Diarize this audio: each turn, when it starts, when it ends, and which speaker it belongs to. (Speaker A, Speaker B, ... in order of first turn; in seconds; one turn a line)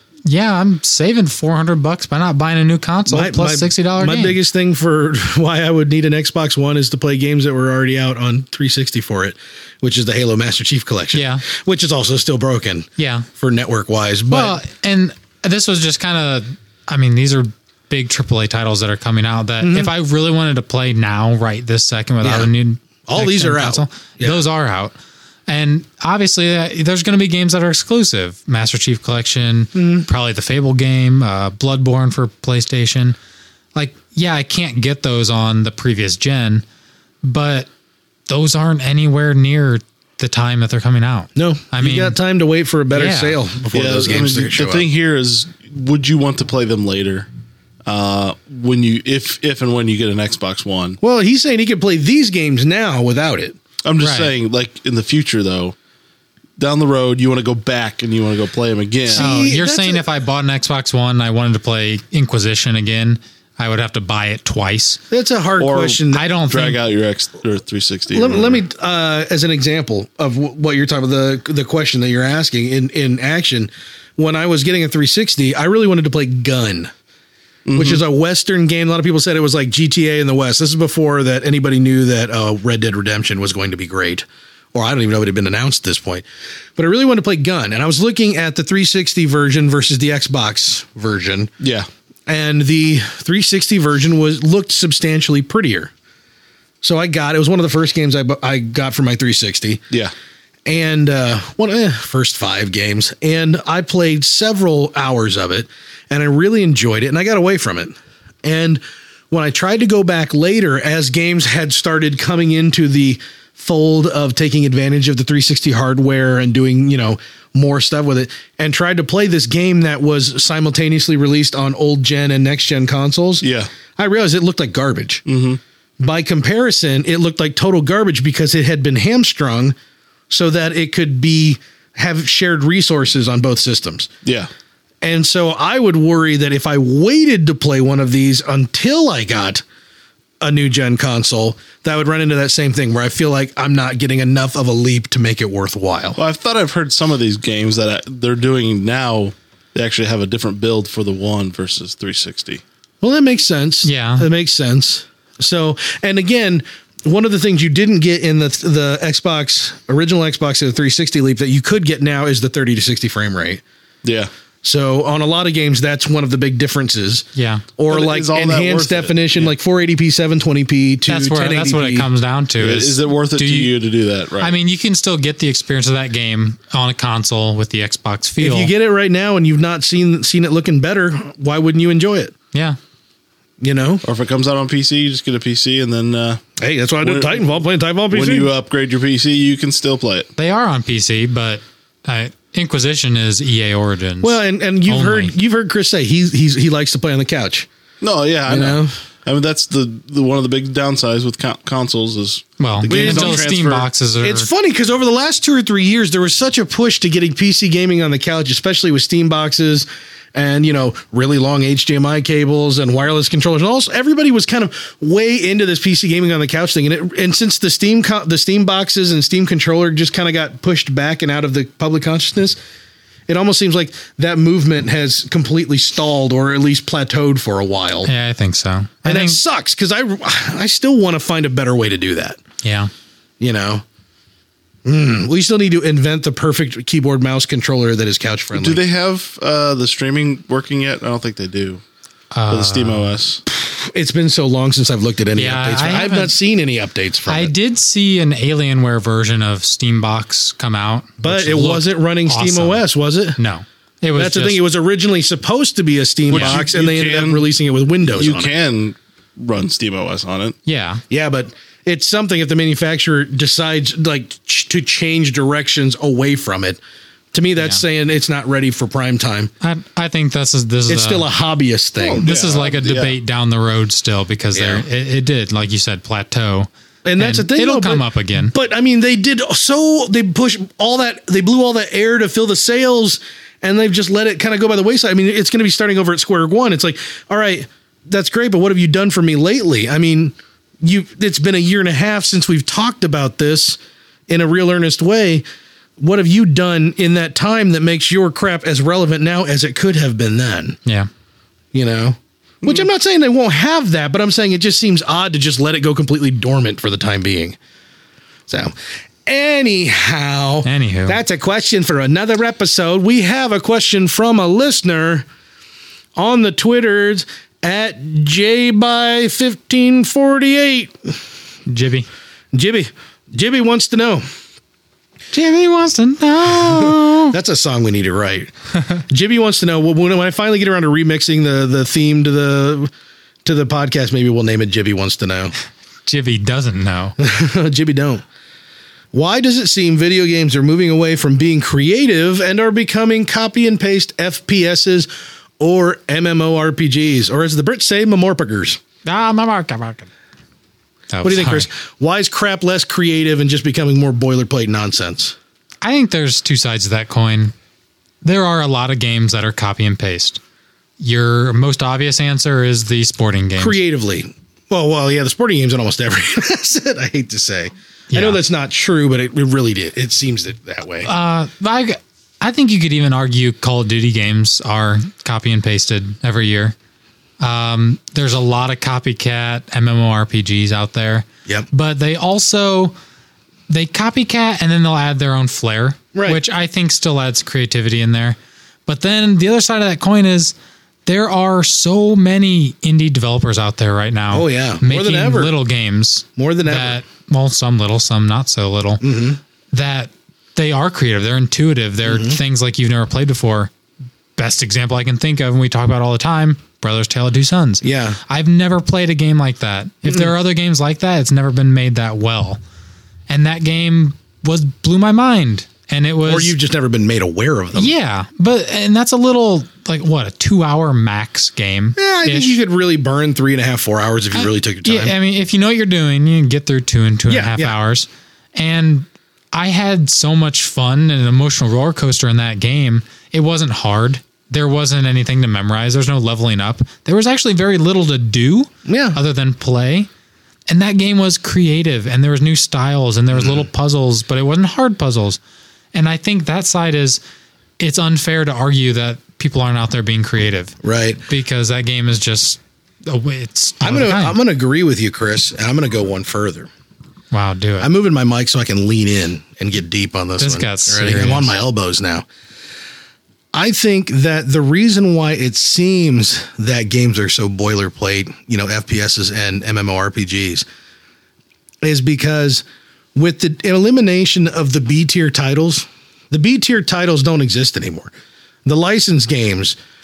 Speaker A: 0.2-4.4
Speaker B: 3.1-14.6
Speaker A: 11.1-11.4
Speaker A: 13.0-13.3
Speaker A: 14.3-24.9
Speaker B: 19.6-19.9
Speaker B: 22.2-22.5
Speaker B: 23.1-24.4
Speaker A: 25.5-33.2
Speaker B: 29.8-30.1
Speaker A: 33.7-36.6
Speaker A: 37.2-37.7
Speaker A: 38.3-42.2
Speaker B: 41.4-44.9
Speaker A: 42.9-43.4
Speaker C: 43.7-47.3
Speaker C: 47.9-51.0
Speaker B: 51.0-53.6
Speaker C: 53.8-55.7
Speaker A: 54.0-54.3
Speaker C: 56.6-59.2
Speaker B: 59.1-60.0
Speaker A: 59.1-65.0
Speaker B: 65.1-66.2
Speaker C: 65.6-68.6
Speaker A: 66.1-66.8
Speaker B: 68.1-76.9
Speaker C: 77.7-78.0
Speaker B: 77.7-91.5
Speaker C: 91.6-91.9
Speaker B: 92.3-95.9
Speaker B: 96.8-99.8
Speaker B: 100.7-123.4
Speaker C: 123.4-123.7
Speaker B: 124.0-125.2
Speaker C: 125.2-125.6
Speaker B: 126.0-129.7
Speaker B: 130.3-134.1
Speaker B: 135.0-139.6
Speaker B: 140.4-146.2
Speaker C: 146.2-152.6
Speaker B: 153.0-163.6
Speaker A: 153.8-154.3
Speaker C: 164.0-164.3
Speaker B: 164.6-172.1
Speaker A: 167.3-167.6
Speaker C: 167.9-169.5
Speaker A: 171.1-173.7
Speaker C: 172.6-174.5
Speaker A: 174.4-178.7
Speaker B: 178.4-182.3
Speaker A: 182.5-182.8
Speaker B: 183.6-184.0
Speaker C: 184.0-186.4
Speaker B: 186.6-188.5
Speaker C: 187.0-187.4
Speaker C: 188.1-190.3
Speaker A: 190.3-195.3
Speaker B: 194.2-197.7
Speaker C: 198.0-203.9
Speaker B: 198.5-198.9
Speaker A: 202.6-204.5
Speaker B: 202.9-203.4
Speaker B: 204.2-222.6
Speaker B: 223.3-228.1
Speaker A: 228.0-229.4
Speaker B: 229.0-232.4
Speaker A: 232.6-232.9
Speaker B: 233.4-233.8
Speaker B: 234.8-238.8
Speaker C: 238.5-241.8
Speaker A: 242.3-243.1
Speaker C: 242.5-243.4
Speaker B: 243.5-247.5
Speaker A: 245.3-246.3
Speaker A: 247.3-252.8
Speaker B: 251.2-253.4
Speaker A: 253.4-254.6
Speaker B: 254.2-258.5
Speaker C: 256.3-257.4
Speaker C: 258.1-260.6
Speaker A: 260.6-261.0
Speaker B: 261.1-266.8
Speaker B: 267.3-269.5
Speaker A: 269.6-271.3
Speaker B: 270.9-272.2
Speaker C: 272.0-273.2
Speaker A: 272.2-278.5
Speaker B: 274.5-274.8
Speaker B: 277.0-295.4
Speaker B: 296.0-300.8
Speaker B: 301.7-307.6
Speaker B: 308.5-308.7
Speaker B: 309.2-315.2
Speaker A: 310.6-311.2
Speaker B: 316.1-321.1
Speaker A: 321.7-322.1
Speaker B: 322.5-324.2
Speaker A: 325.3-327.4
Speaker B: 326.8-328.5
Speaker B: 329.1-332.9
Speaker B: 333.4-335.5
Speaker A: 336.1-337.1
Speaker B: 337.2-338.2
Speaker B: 339.1-348.8
Speaker A: 349.0-350.1
Speaker A: 351.1-351.7
Speaker B: 351.2-355.4
Speaker A: 355.8-357.5
Speaker A: 358.2-360.4
Speaker A: 361.0-363.8
Speaker B: 363.6-371.1
Speaker A: 368.1-368.4
Speaker A: 371.0-376.7
Speaker A: 377.4-382.9
Speaker A: 383.7-390.5
Speaker B: 386.1-386.4
Speaker A: 391.1-399.0
Speaker B: 394.3-395.5
Speaker B: 396.4-397.0
Speaker B: 399.0-399.4
Speaker A: 399.7-403.7
Speaker B: 402.1-402.4
Speaker A: 404.4-412.6
Speaker B: 407.8-408.2
Speaker A: 413.3-416.5
Speaker B: 416.2-417.9
Speaker A: 417.7-422.6
Speaker B: 421.9-425.1
Speaker A: 424.3-440.1
Speaker B: 427.3-427.8
Speaker B: 438.9-439.2
Speaker A: 440.7-445.4
Speaker B: 443.3-443.7
Speaker A: 445.9-447.2
Speaker A: 447.8-450.8
Speaker B: 450.8-451.2
Speaker A: 451.3-454.4
Speaker B: 453.8-456.7
Speaker A: 457.3-457.9
Speaker B: 457.8-462.2
Speaker A: 460.4-461.5
Speaker B: 463.5-470.6
Speaker B: 471.8-472.6
Speaker B: 473.1-478.1
Speaker B: 478.6-479.8